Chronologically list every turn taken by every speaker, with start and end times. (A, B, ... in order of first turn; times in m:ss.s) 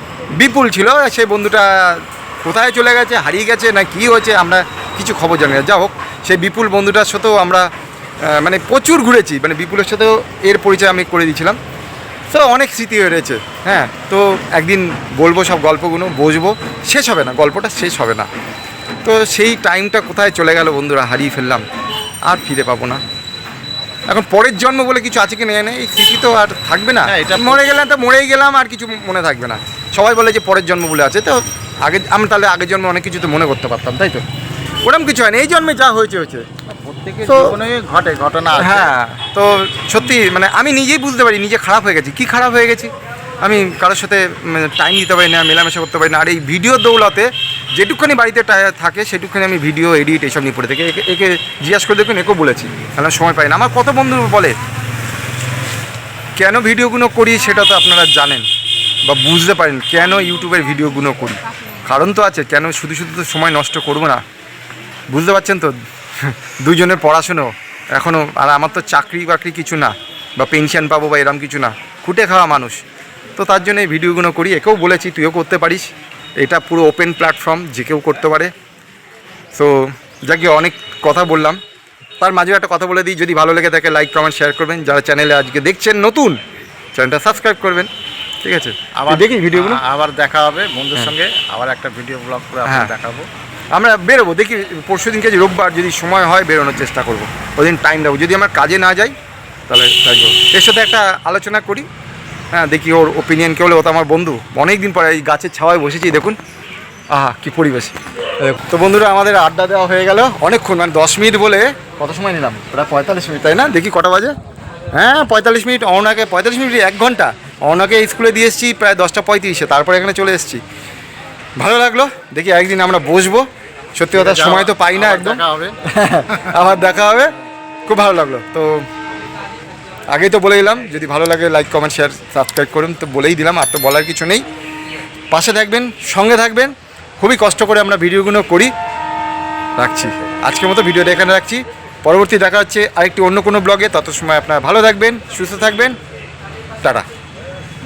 0:00.4-0:07.7 A
0:08.2-0:11.6 A
0:12.3-0:18.3 A
0:19.0-0:21.6 A
0:22.2-0:23.0 A
0:24.1-0:34.2 A
0:27.0-0:27.7 B
0:34.8-0:36.4 A
0:36.7-0:38.9 B
0:37.2-0:37.6 A
0:38.6-0:54.6 A
0:56.4-0:58.5 A
0:59.0-1:04.2 A
1:05.1-1:12.8 A
1:13.4-1:18.5 A
1:19.5-1:21.6 A
1:22.2-1:26.4 A
1:26.9-1:27.9 A
1:28.4-1:29.8 A
1:28.9-1:33.3 B
1:32.6-1:32.9 A
1:33.7-1:39.1 A
1:39.7-1:41.9 A
1:42.5-1:46.4 A
1:47.1-1:54.4 A
1:54.9-2:00.6 A
2:01.6-2:07.3 A
2:04.1-2:06.5 B
2:07.9-2:08.9 A
2:10.1-2:14.4 A
2:15.3-2:18.7 A
2:19.8-2:26.0 A